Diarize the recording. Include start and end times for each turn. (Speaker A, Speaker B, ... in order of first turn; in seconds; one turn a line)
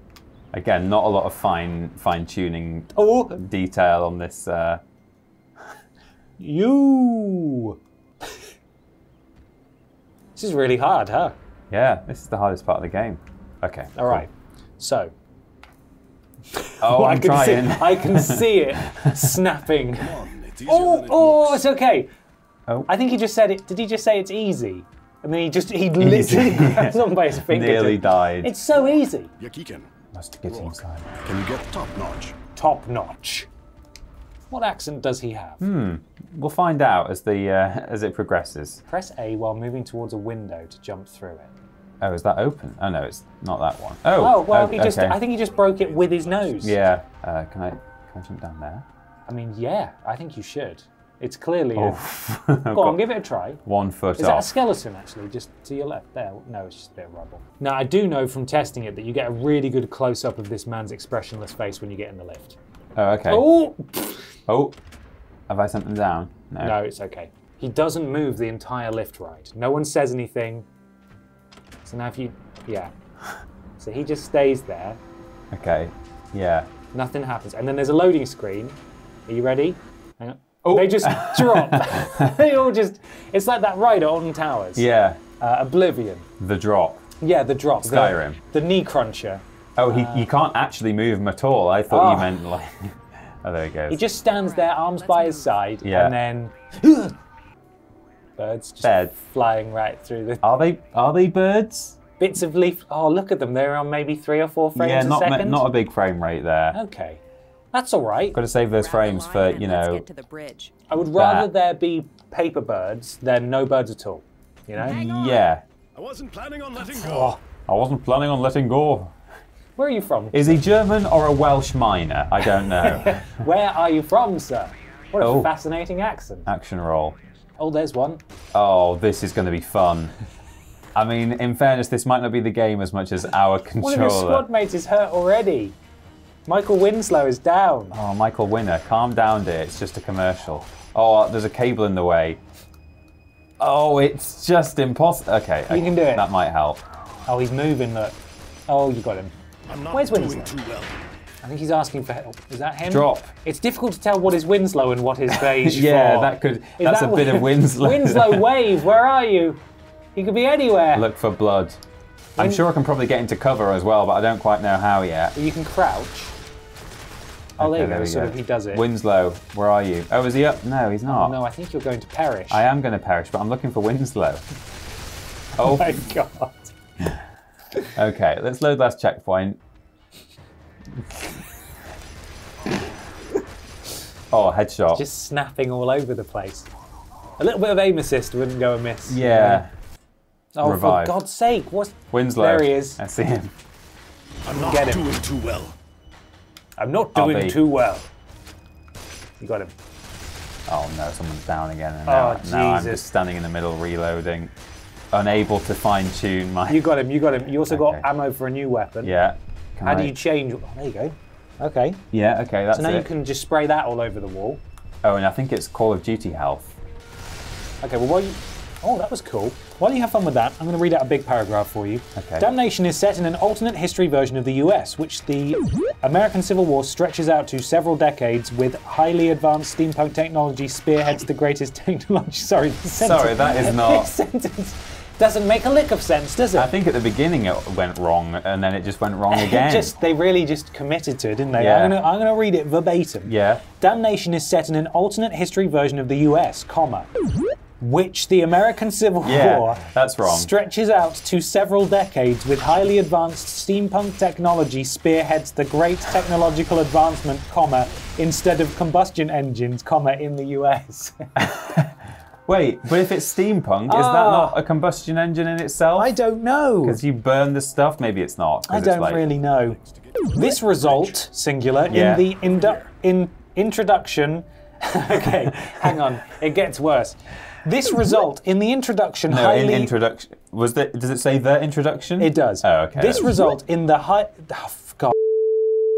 Speaker A: 0.5-4.8
Speaker B: 2.9-3.4
Speaker B: 6.4-8.4
Speaker B: 10.4-11.4
Speaker A: 11.7-14.2
Speaker B: 13.9-15.1
Speaker B: 16.5-22.1
Speaker A: 16.8-19.3
Speaker C: 20.0-21.7
Speaker B: 22.9-29.3
Speaker A: 26.0-28.6
Speaker C: 29.4-29.9
Speaker A: 30.1-31.1
Speaker C: 30.5-32.4
Speaker B: 32.6-33.5
Speaker B: 34.5-35.6
Speaker A: 35.6-38.8
Speaker B: 38.9-41.5
Speaker A: 42.0-45.2
Speaker B: 44.2-46.8
Speaker C: 45.2-46.9
Speaker A: 46.6-48.9
Speaker B: 49.3-52.0
Speaker A: 51.8-53.1
Speaker B: 52.7-53.6
Speaker A: 53.6-54.5
Speaker B: 54.2-62.6
Speaker A: 63.0-63.5
Speaker B: 63.3-64.2
Speaker A: 64.5-64.8
Speaker A: 65.5-66.8
Speaker B: 66.6-70.7
Speaker B: 71.8-72.9
Speaker B: 73.8-75.0
Speaker A: 75.5-76.7
Speaker B: 76.9-84.9
Speaker A: 80.6-82.3
Speaker A: 84.8-85.2
Speaker B: 85.4-86.3
Speaker A: 86.4-87.0
Speaker B: 87.2-90.3
Speaker A: 87.8-88.4
Speaker A: 89.8-94.0
Speaker B: 91.9-92.3
Speaker B: 93.9-97.2
Speaker D: 94.3-95.6
Speaker A: 95.8-96.2
Speaker B: 98.4-100.4
Speaker A: 98.8-99.1
Speaker A: 100.4-102.0
Speaker B: 102.2-105.7
Speaker A: 104.8-106.8
Speaker B: 106.7-107.2
Speaker B: 107.7-108.4
Speaker A: 108.3-110.1
Speaker D: 108.8-110.7
Speaker B: 110.9-115.0
Speaker A: 111.0-111.5
Speaker A: 114.8-115.6
Speaker D: 114.9-115.4
Speaker C: 116.0-117.4
Speaker B: 116.8-117.4
Speaker A: 117.7-119.2
Speaker B: 119.8-120.7
Speaker A: 120.3-123.4
Speaker B: 122.6-126.5
Speaker A: 125.2-125.5
Speaker A: 126.5-127.2
Speaker B: 127.6-128.2
Speaker A: 128.5-130.1
Speaker A: 130.9-134.5
Speaker B: 133.8-135.8
Speaker B: 136.5-138.0
Speaker A: 137.9-142.4
Speaker A: 143.6-146.8
Speaker B: 145.7-146.3
Speaker B: 147.3-148.2
Speaker B: 148.7-149.3
Speaker C: 149.7-151.0
Speaker B: 149.9-150.6
Speaker B: 151.4-159.6
Speaker A: 152.9-153.3
Speaker A: 155.3-158.5
Speaker B: 160.2-161.1
Speaker A: 160.9-161.8
Speaker B: 162.4-162.7
Speaker A: 162.4-165.3
Speaker B: 165.3-166.3
Speaker B: 167.6-168.8
Speaker A: 167.6-171.4
Speaker B: 171.1-172.7
Speaker A: 172.5-174.4
Speaker B: 175.6-176.7
Speaker A: 175.6-176.1
Speaker A: 177.9-179.6
Speaker A: 184.3-185.0
Speaker B: 184.9-186.7
Speaker B: 187.4-189.6
Speaker A: 189.1-189.7
Speaker B: 190.6-193.0
Speaker A: 190.6-191.2
Speaker A: 192.1-193.5
Speaker C: 194.4-195.8
Speaker B: 194.5-195.0
Speaker B: 196.8-198.1
Speaker A: 197.1-197.6
Speaker B: 199.4-199.7
Speaker A: 200.7-204.5
Speaker B: 202.1-203.1
Speaker A: 205.1-206.9
Speaker B: 206.7-209.1
Speaker A: 207.7-208.1
Speaker A: 209.0-210.2
Speaker B: 209.8-212.1
Speaker A: 212.1-213.1
Speaker B: 212.7-214.6
Speaker A: 215.0-216.8
Speaker B: 217.8-236.7
Speaker A: 222.2-222.5
Speaker A: 233.0-234.1
Speaker A: 236.6-240.0
Speaker B: 239.3-247.1
Speaker A: 241.6-242.0
Speaker A: 243.2-243.6
Speaker B: 247.8-261.3
Speaker A: 249.2-250.5
Speaker A: 261.4-266.1
Speaker B: 263.9-264.6
Speaker B: 266.0-267.0
Speaker A: 266.8-269.3
Speaker B: 268.7-269.8
Speaker C: 269.2-271.2
Speaker B: 270.3-279.9
Speaker A: 271.9-272.3
Speaker C: 272.4-272.9
Speaker A: 279.3-283.4
Speaker B: 282.2-285.2